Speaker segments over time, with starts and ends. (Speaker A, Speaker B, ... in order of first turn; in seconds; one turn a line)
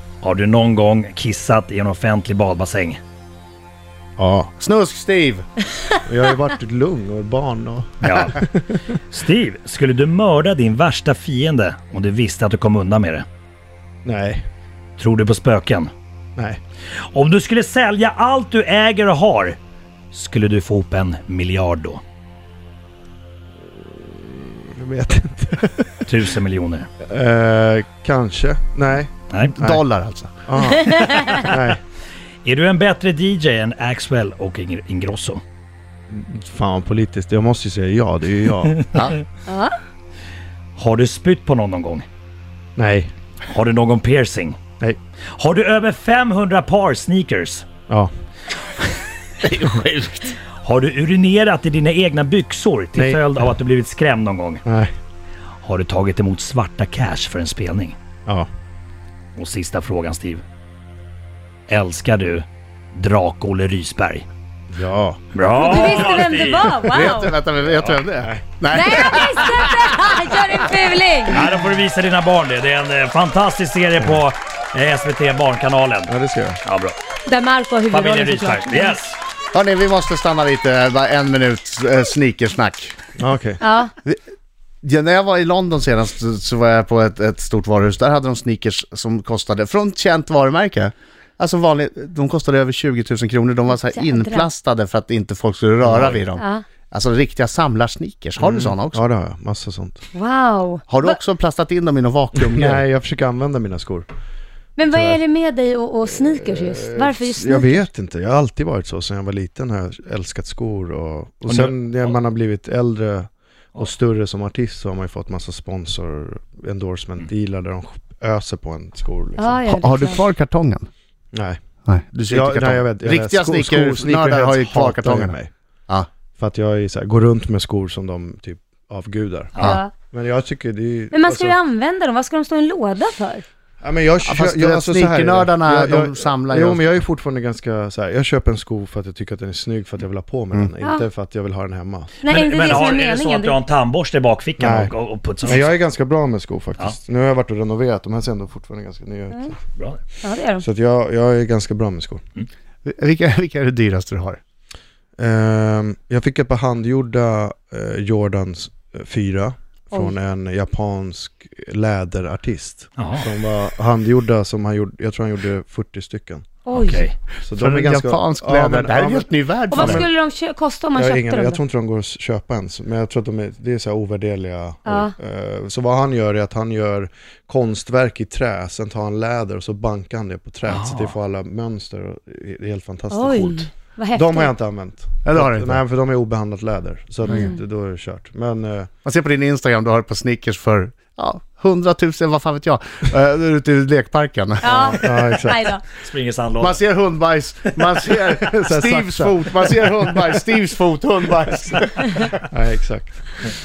Speaker A: 0.2-3.0
Speaker B: 4.2-4.5
Speaker C: 4.6-5.5
Speaker B: 6.0-9.0
Speaker A: 8.0-8.4
Speaker A: 9.1-13.2
Speaker B: 14.0-14.4
Speaker A: 15.0-15.9
Speaker A: 17.0-19.6
Speaker A: 20.1-22.0
Speaker B: 23.7-26.1
Speaker A: 26.1-26.9
Speaker B: 27.0-29.8
Speaker C: 29.5-30.7
Speaker B: 30.4-31.8
Speaker D: 30.7-31.4
Speaker A: 32.4-35.4
Speaker B: 36.1-38.8
Speaker C: 38.9-39.2
Speaker D: 39.5-39.8
Speaker A: 40.8-42.0
Speaker B: 42.8-43.1
Speaker A: 43.5-44.6
Speaker A: 45.3-47.6
Speaker C: 49.6-50.3
Speaker A: 50.6-54.6
Speaker B: 52.9-53.2
Speaker B: 54.6-54.9
Speaker A: 55.6-58.0
Speaker A: 59.4-60.4
Speaker A: 61.7-64.2
Speaker B: 64.7-65.2
Speaker A: 65.3-66.8
Speaker D: 65.5-67.3
Speaker C: 66.8-69.9
Speaker B: 67.6-68.4
Speaker D: 68.7-71.4
Speaker A: 71.3-76.1
Speaker B: 76.1-76.6
Speaker A: 76.6-77.0
Speaker D: 77.2-79.0
Speaker A: 77.9-79.2
Speaker C: 79.5-83.0
Speaker B: 83.2-83.6
Speaker D: 83.6-83.9
Speaker C: 84.8-99.0
Speaker D: 93.9-94.5
Speaker B: 95.8-96.2
Speaker D: 96.4-96.6
Speaker B: 98.4-100.0
Speaker D: 100.1-101.1
Speaker C: 100.9-102.8
Speaker B: 102.4-104.1
Speaker D: 104.8-107.8
Speaker B: 104.9-105.2
Speaker B: 106.0-119.9
Speaker A: 111.5-112.2
Speaker D: 119.4-120.2
Speaker C: 119.7-120.9
Speaker B: 121.3-121.6
Speaker C: 121.8-125.3
Speaker B: 122.3-125.5
Speaker B: 126.4-131.6
Speaker D: 129.6-129.9
Speaker D: 131.1-133.4
Speaker B: 133.8-142.1
Speaker C: 134.2-136.9
Speaker D: 142.2-143.6
Speaker A: 142.2-145.8
Speaker B: 144.6-149.6
Speaker D: 150.2-150.6
Speaker B: 150.6-152.2
Speaker C: 152.8-154.4
Speaker B: 155.2-166.6
Speaker A: 163.0-163.3
Speaker D: 166.7-167.0
Speaker A: 166.7-167.1
Speaker B: 167.4-170.1
Speaker C: 167.6-170.1
Speaker D: 169.7-171.6
Speaker B: 170.9-188.9
Speaker D: 174.8-175.1
Speaker A: 180.6-181.1
Speaker D: 183.1-184.5
Speaker C: 185.2-185.8
Speaker D: 187.3-187.6
Speaker C: 189.0-195.1
Speaker D: 194.6-195.8
Speaker B: 195.0-195.7
Speaker A: 196.0-196.8
Speaker C: 196.6-202.3
Speaker B: 198.5-199.7
Speaker B: 202.5-203.3